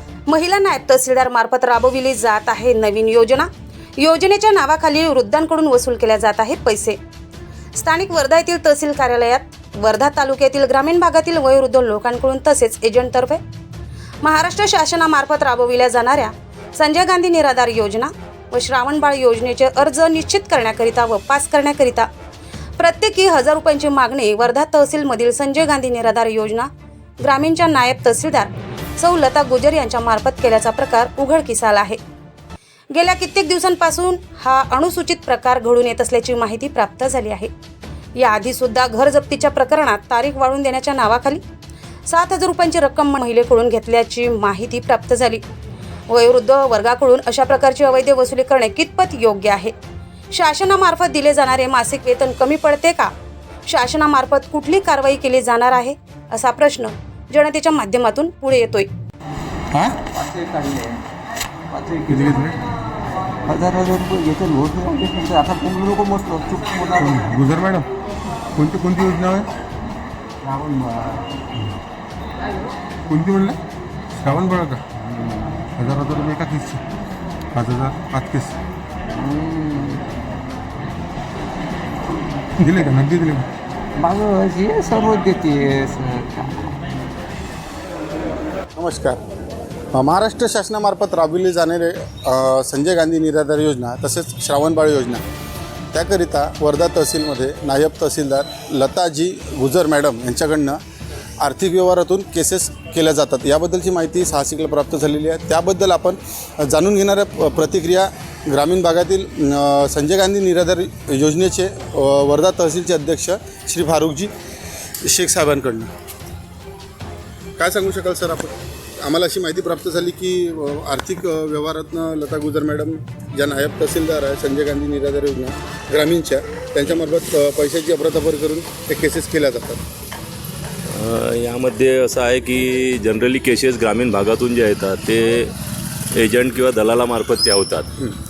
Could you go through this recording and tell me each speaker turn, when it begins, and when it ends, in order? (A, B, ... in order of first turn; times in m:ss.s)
0:00.3-0:07.0 A
0:07.8-0:13.4 A
0:14.2-0:22.1 A
0:22.8-0:32.0 A
0:32.9-0:37.5 A
0:38.2-0:41.4 A
0:42.1-0:45.4 A
0:46.1-0:49.7 A
0:50.3-0:53.1 A
0:53.7-0:58.9 A
0:59.7-1:01.0 B
1:01.7-1:02.6 B
1:02.1-1:02.5 C
1:03.4-1:07.4 B
1:07.0-1:07.9 C
1:08.5-1:09.5 C
1:10.4-1:11.4 B
1:13.1-1:13.6 C
1:14.1-1:14.9 C
1:15.0-1:15.7 B
1:15.7-1:16.8 C
1:17.5-1:18.6 C
1:19.1-1:20.1 B
1:22.6-1:23.5 C
1:24.0-1:26.8 B
1:28.8-1:29.2 D
1:29.9-1:35.2 D
1:35.9-1:40.8 D
1:41.4-1:54.3 D
1:55.0-1:55.9 D
1:57.6-2:09.8 D
2:10.9-2:15.5 E
2:16.1-2:18.0 E